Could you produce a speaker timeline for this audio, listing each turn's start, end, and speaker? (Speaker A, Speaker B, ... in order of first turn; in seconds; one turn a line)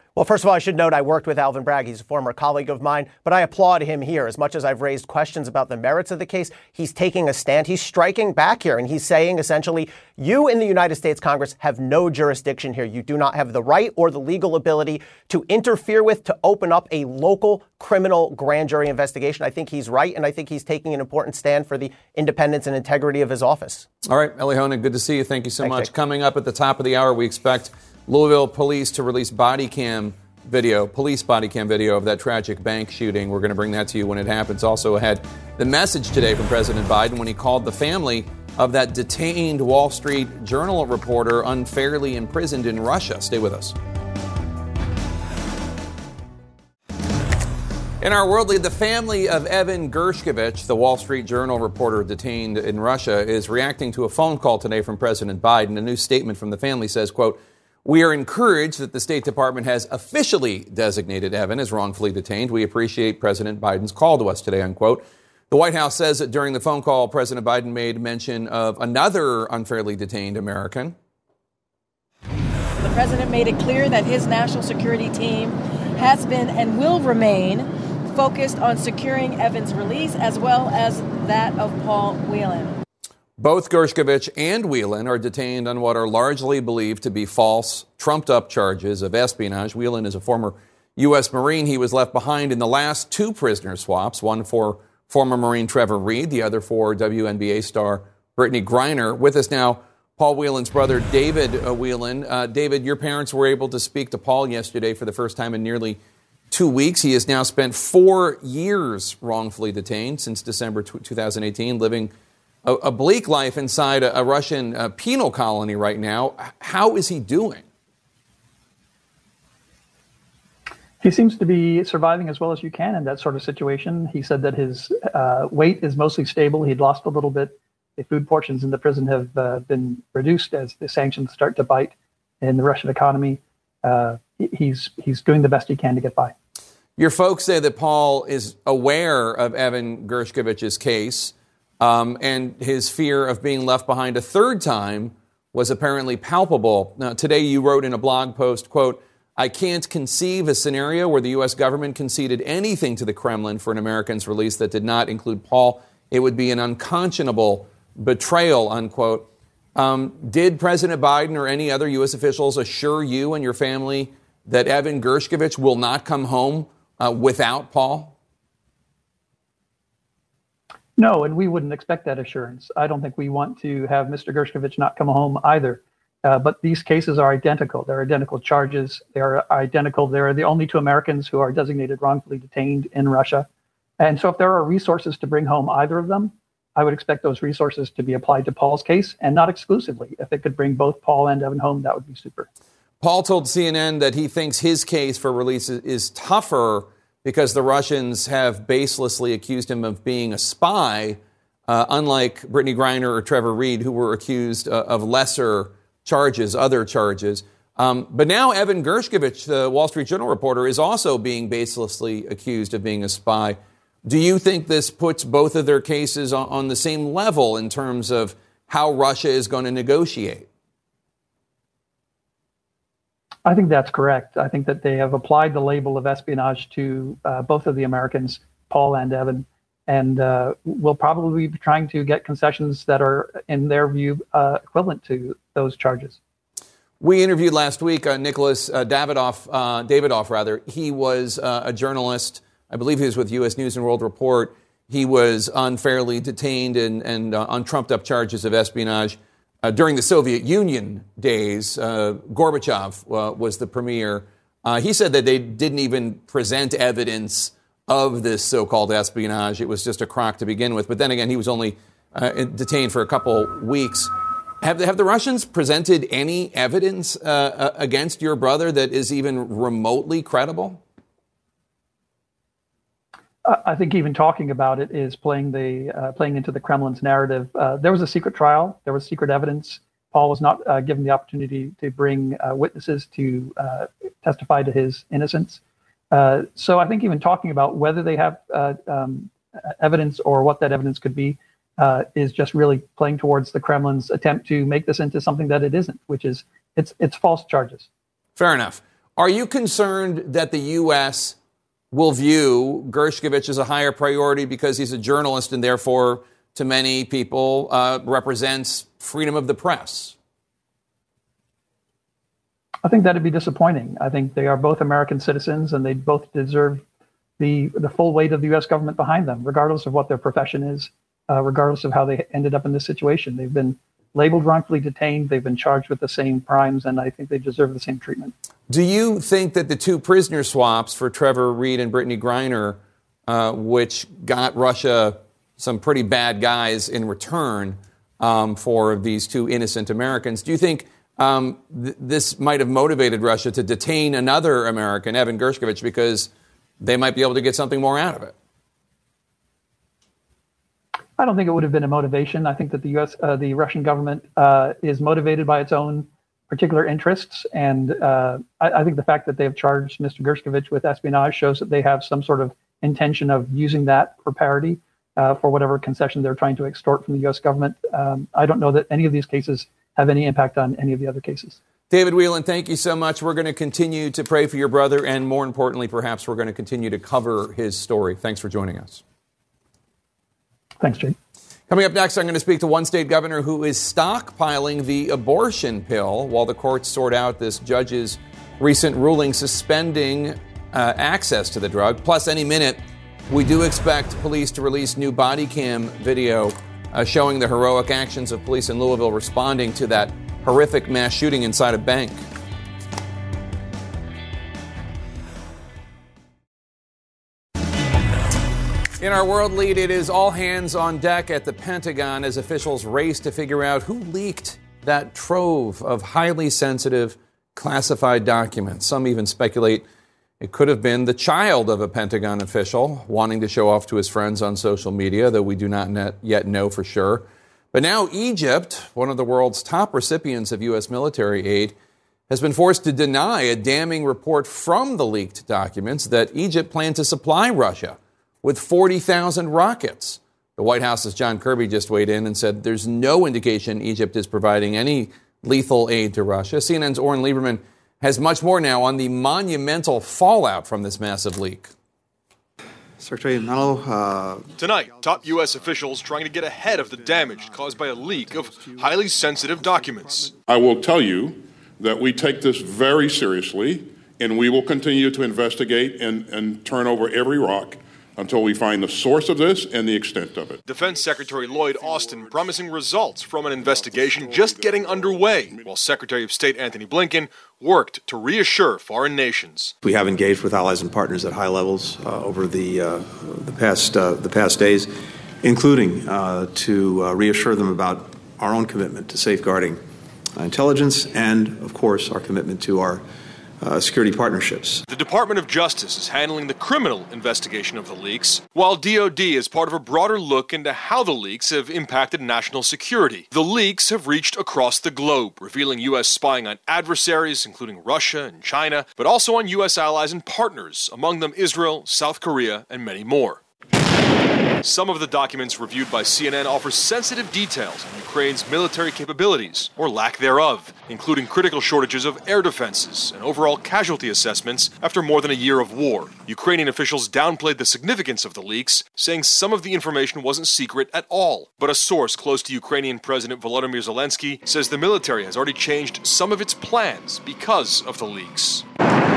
Speaker A: 0.2-23.9
Speaker B: 24.1-43.7
Speaker A: 25.6-25.9
Speaker B: 48.0-71.0
Speaker C: 72.8-82.8
Speaker B: 83.4-106.0
Speaker B: 106.5-112.1
Speaker B: 112.7-117.6
Speaker D: 121.0-136.3
Speaker B: 137.0-168.1
Speaker D: 171.0-183.5
Speaker D: 184.0-192.5
Speaker B: 193.0-220.5
Speaker D: 223.5-236.2
Speaker B: 237.0-264.1
Speaker B: 264.6-270.8
Speaker D: 273.5-285.6
Speaker D: 286.1-297.9
Speaker B: 298.4-301.4
Speaker B: 301.9-310.1
Speaker D: 312.9-316.8
Speaker D: 317.4-328.3
Speaker B: 328.7-346.3
Speaker B: 346.8-348.4
Speaker D: 351.2-371.6
Speaker B: 371.9-379.0
Speaker D: 380.8-381.2
Speaker B: 381.7-402.2
Speaker B: 409.0-419.8
Speaker B: 420.4-431.7
Speaker B: 432.3-451.7
Speaker E: 453.0-454.5
Speaker F: 454.6-460.4
Speaker G: 460.4-472.6
Speaker F: 470.7-479.7
Speaker G: 473.5-475.8
Speaker E: 479.8-489.8
Speaker E: 490.3-493.1
Speaker E: 493.6-494.9
Speaker F: 494.9-513.4
Speaker F: 514.6-538.6